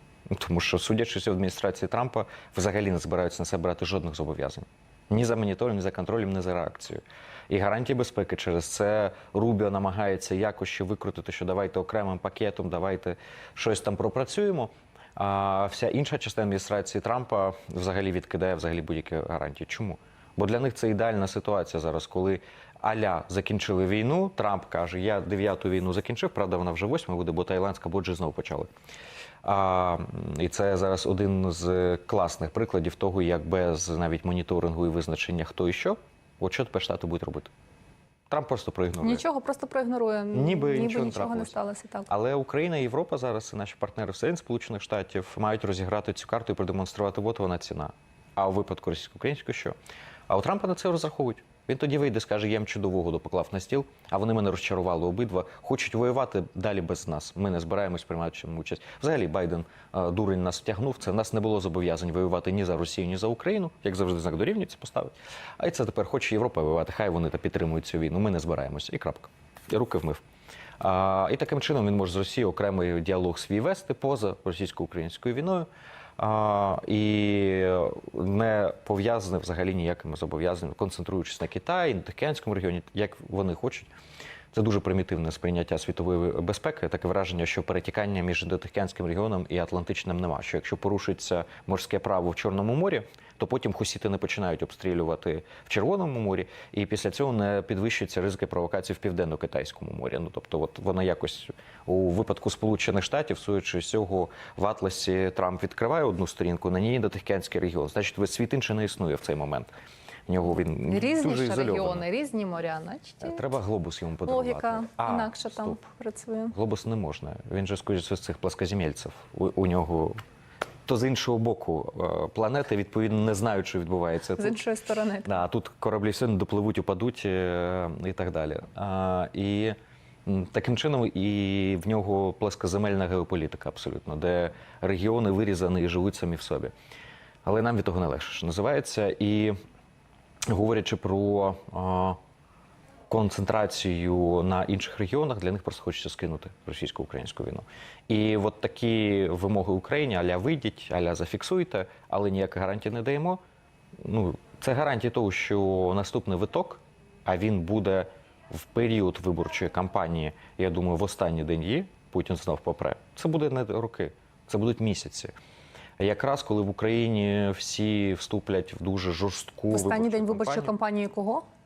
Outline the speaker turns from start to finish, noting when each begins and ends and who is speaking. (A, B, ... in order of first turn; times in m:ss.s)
0:00.3-0:28.7 A
0:29.4-0:37.5 A
0:38.3-0:39.2 A
0:39.0-0:42.1 B
0:40.3-0:41.5 A
0:42.1-0:49.8 A
0:50.3-1:10.2 A
1:10.8-1:23.9 A
1:24.5-1:49.7 A
1:50.3-1:52.0 A
1:50.8-1:53.4 B
1:53.2-1:55.8 A
1:54.3-1:56.6 B
1:56.5-2:00.2 A
2:00.9-2:04.6 A
2:04.4-2:05.4 B
2:05.2-2:16.7 A
2:17.4-2:19.6 A
2:20.5-2:22.2 A
2:23.1-2:33.4 A
2:34.0-2:45.3 A
2:46.0-2:50.7 A
2:49.7-2:51.4 B